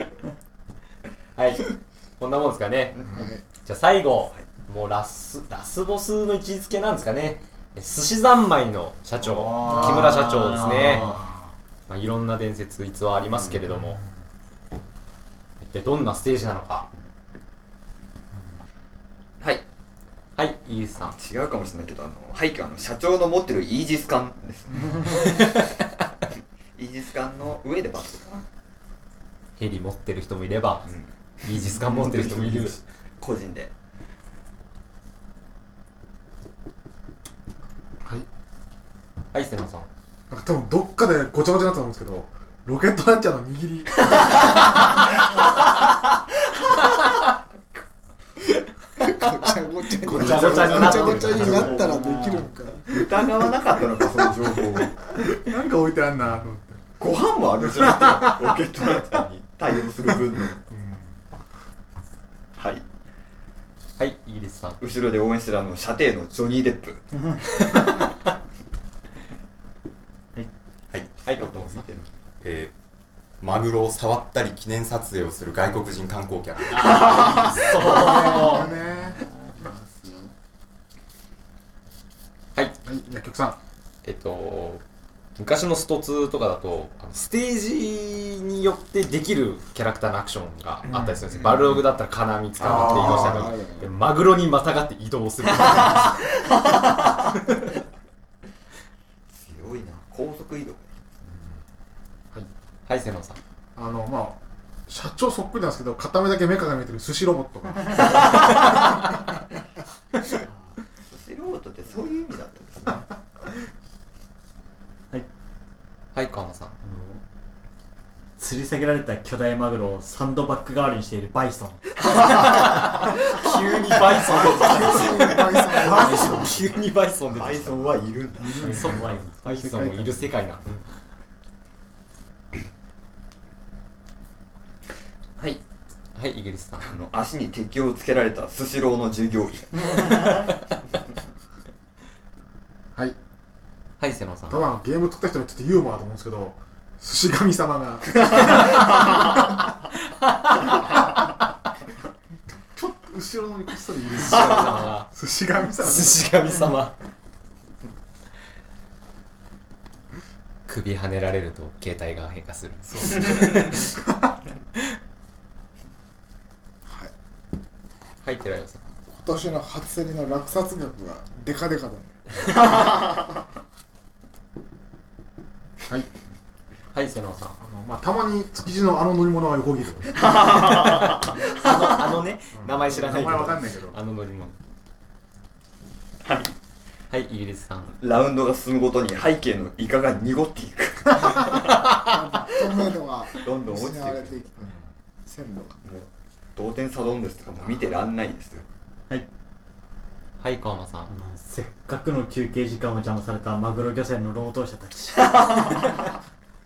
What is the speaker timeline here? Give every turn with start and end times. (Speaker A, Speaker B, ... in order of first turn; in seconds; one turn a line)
Speaker A: 1.4-3.1
Speaker B: 3.1-3.4
Speaker A: 3.6-11.2
Speaker C: 9.2-11.3
Speaker A: 11.9-14.0
Speaker A: 15.6-16.9
Speaker A: 20.4-21.2
Speaker D: 21.1-25.3
Speaker A: 25.1-25.7
Speaker D: 26.8-28.4
Speaker A: 29.6-30.9
Speaker D: 30.9-33.7
Speaker A: 31.4-32.8
Speaker A: 39.3-39.9
Speaker E: 40.3-44.3
Speaker B: 49.0-53.2
Speaker A: 50.0-51.9
Speaker D: 50.2-51.1
Speaker C: 50.5-52.5
Speaker D: 52.9-55.1
Speaker E: 55.2-56.8
Speaker D: 57.0-60.6
Speaker E: 57.8-58.4
Speaker E: 60.7-61.2
Speaker D: 62.6-62.8
Speaker A: 64.0-64.8
Speaker D: 64.8-67.0
Speaker A: 67.7-67.9
Speaker A: 71.2-71.7
Speaker D: 71.3-72.1
Speaker F: 72.4-72.7
Speaker F: 73.4-77.4
Speaker A: 76.7-78.7
Speaker B: 77.9-80.3
Speaker E: 78.4-79.2
Speaker E: 82.8-83.6
Speaker A: 84.0-84.8
Speaker A: 85.4-96.2
Speaker E: 90.9-91.2
Speaker E: 92.6-93.5
Speaker D: 92.6-93.3
Speaker B: 92.7-93.9
Speaker D: 96.7-97.1
Speaker D: 99.3-100.9
Speaker A: 102.9-103.4
Speaker E: 103.8-108.4
Speaker D: 110.3-113.1
Speaker A: 116.2-116.8
Speaker C: 116.8-117.2
Speaker C: 118.4-122.0
Speaker D: 122.1-122.8
Speaker A: 122.3-128.0
Speaker D: 124.3-124.9
Speaker B: 124.4-126.5
Speaker E: 125.8-126.5
Speaker C: 125.9-126.5
Speaker D: 127.3-128.8
Speaker C: 128.4-129.4
Speaker E: 128.5-130.1
Speaker A: 128.6-130.8
Speaker A: 136.2-136.9
Speaker D: 136.8-140.4
Speaker A: 144.0-144.6
Speaker E: 144.5-148.9
Speaker A: 150.2-150.7
Speaker E: 152.7-156.3
Speaker A: 154.2-155.1
Speaker A: 155.8-156.9
Speaker A: 160.7-163.9
Speaker E: 163.2-163.9
Speaker B: 166.9-167.1
Speaker A: 168.2-168.8
Speaker B: 169.1-172.5
Speaker D: 172.7-173.0
Speaker A: 176.9-177.6
Speaker E: 177.6-180.2
Speaker D: 180.1-181.7
Speaker A: 181.3-184.6
Speaker E: 182.6-184.0
Speaker D: 186.2-186.5
Speaker A: 187.1-188.0
Speaker D: 188.0-191.7
Speaker B: 191.9-194.7
Speaker D: 193.4-194.4
Speaker B: 195.3-195.8
Speaker D: 195.8-198.7
Speaker A: 200.4-201.1
Speaker C: 201.1-205.9